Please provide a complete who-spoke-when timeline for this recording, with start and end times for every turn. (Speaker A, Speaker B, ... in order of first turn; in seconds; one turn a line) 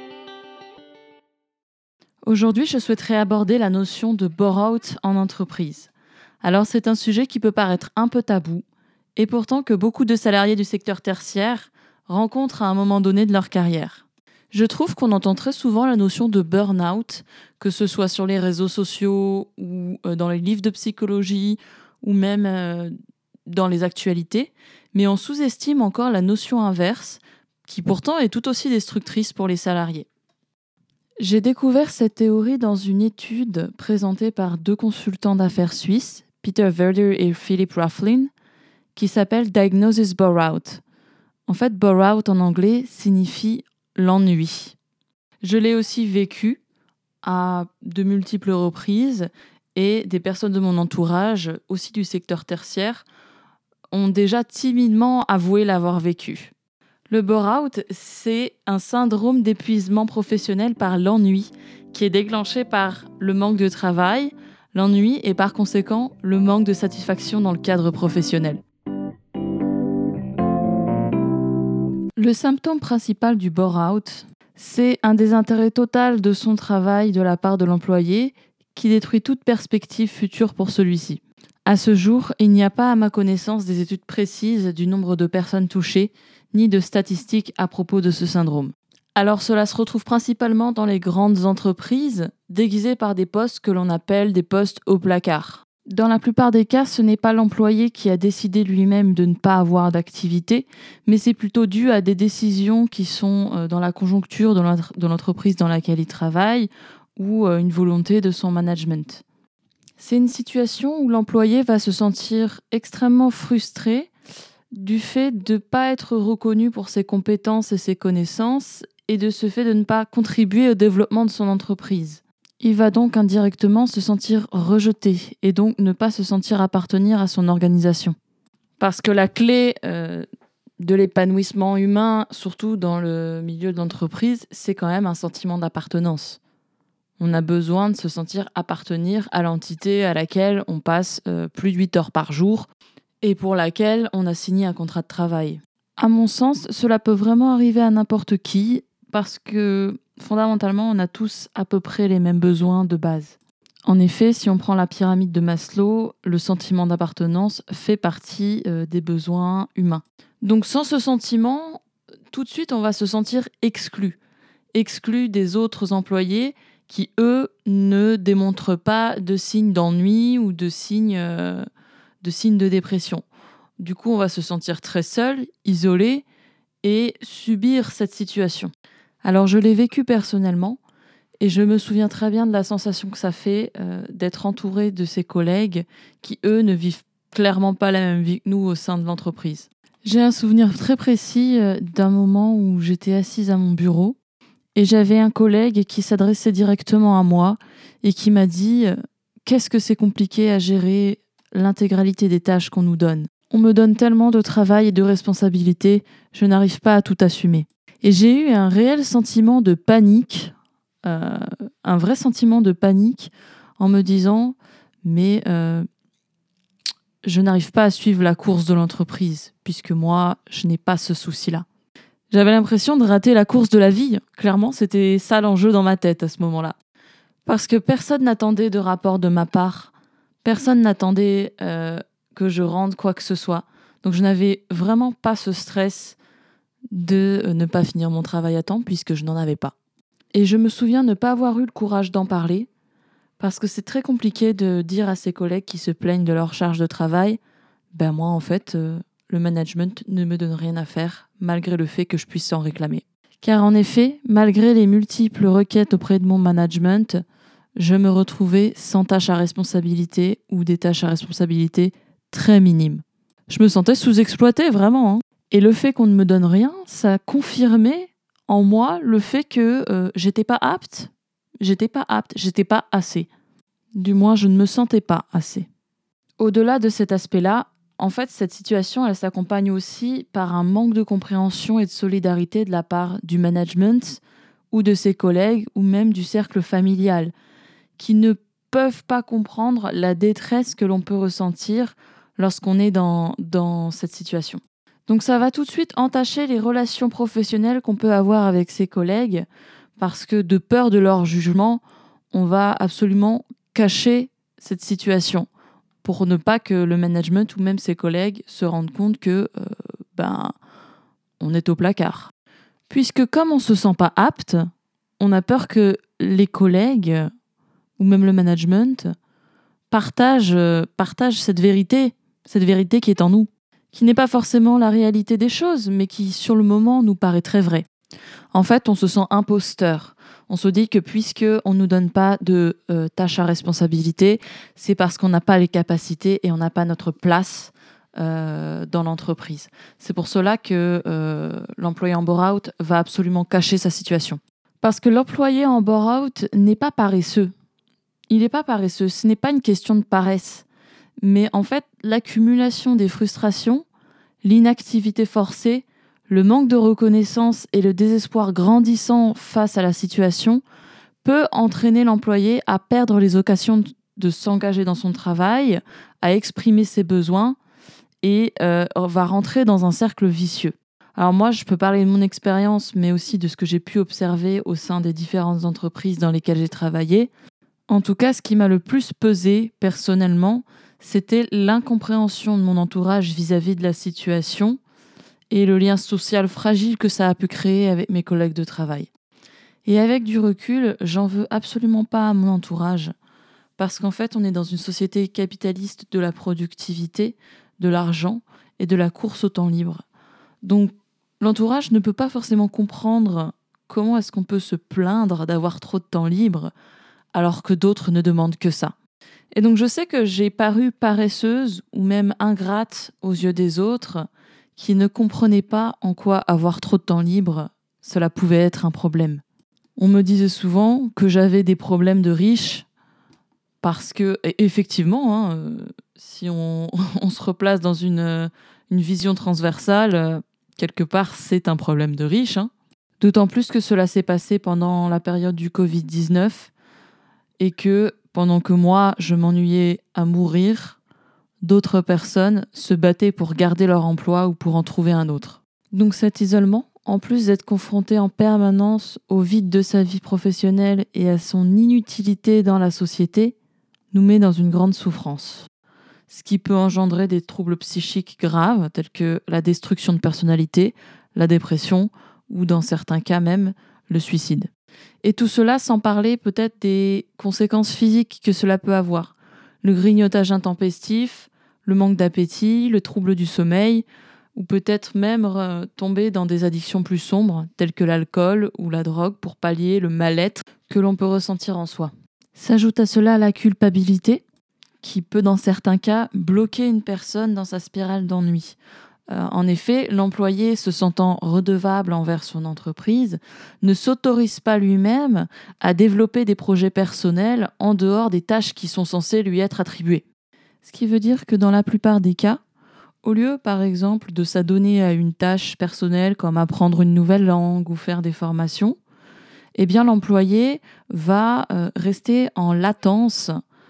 Speaker A: 2.2-5.9
Speaker A: 6.4-8.7
Speaker A: 9.2-22.9
Speaker A: 23.5-30.1
Speaker A: 31.2-38.3
Speaker A: 39.0-40.8
Speaker A: 41.5-44.8
Speaker A: 45.4-46.6
Speaker A: 47.2-53.0
Speaker A: 53.9-56.5
Speaker A: 57.1-68.6
Speaker A: 72.2-109.2
Speaker A: 110.0-114.1
Speaker A: 114.7-128.2
Speaker A: 128.8-130.2
Speaker A: 130.8-136.4
Speaker A: 137.2-142.7
Speaker A: 143.2-164.2
Speaker A: 164.7-171.7
Speaker A: 172.2-173.3
Speaker A: 173.8-176.2
Speaker A: 176.8-178.7
Speaker A: 179.2-180.8
Speaker A: 181.4-194.2
Speaker A: 194.8-215.9
Speaker A: 217.2-221.7
Speaker A: 222.3-226.8
Speaker A: 227.4-229.9
Speaker A: 230.4-236.2
Speaker A: 236.9-239.8
Speaker A: 240.3-242.7
Speaker A: 243.4-247.4
Speaker A: 247.9-257.2
Speaker A: 257.8-273.3
Speaker A: 273.9-275.7
Speaker A: 276.4-287.3
Speaker A: 288.0-299.5
Speaker A: 300.0-305.5
Speaker A: 306.0-310.5
Speaker A: 311.4-312.3
Speaker A: 312.9-314.7
Speaker A: 315.2-317.3
Speaker A: 318.0-319.1
Speaker A: 319.9-327.9
Speaker A: 328.5-347.5
Speaker A: 348.3-350.7
Speaker A: 351.2-353.9
Speaker A: 354.4-360.6
Speaker A: 361.2-367.6
Speaker A: 368.2-377.3
Speaker A: 377.9-384.8
Speaker A: 385.5-389.1
Speaker A: 389.9-393.1
Speaker A: 393.8-400.1
Speaker A: 400.6-406.7
Speaker A: 407.3-408.9
Speaker A: 409.5-419.4
Speaker A: 420.0-422.9
Speaker A: 423.8-436.7
Speaker A: 437.6-441.0
Speaker A: 441.6-453.6
Speaker A: 454.1-455.7
Speaker A: 456.3-464.7
Speaker A: 465.2-484.4
Speaker A: 485.0-488.8
Speaker A: 489.3-500.2
Speaker A: 500.8-502.6
Speaker A: 503.2-509.0
Speaker A: 509.8-513.5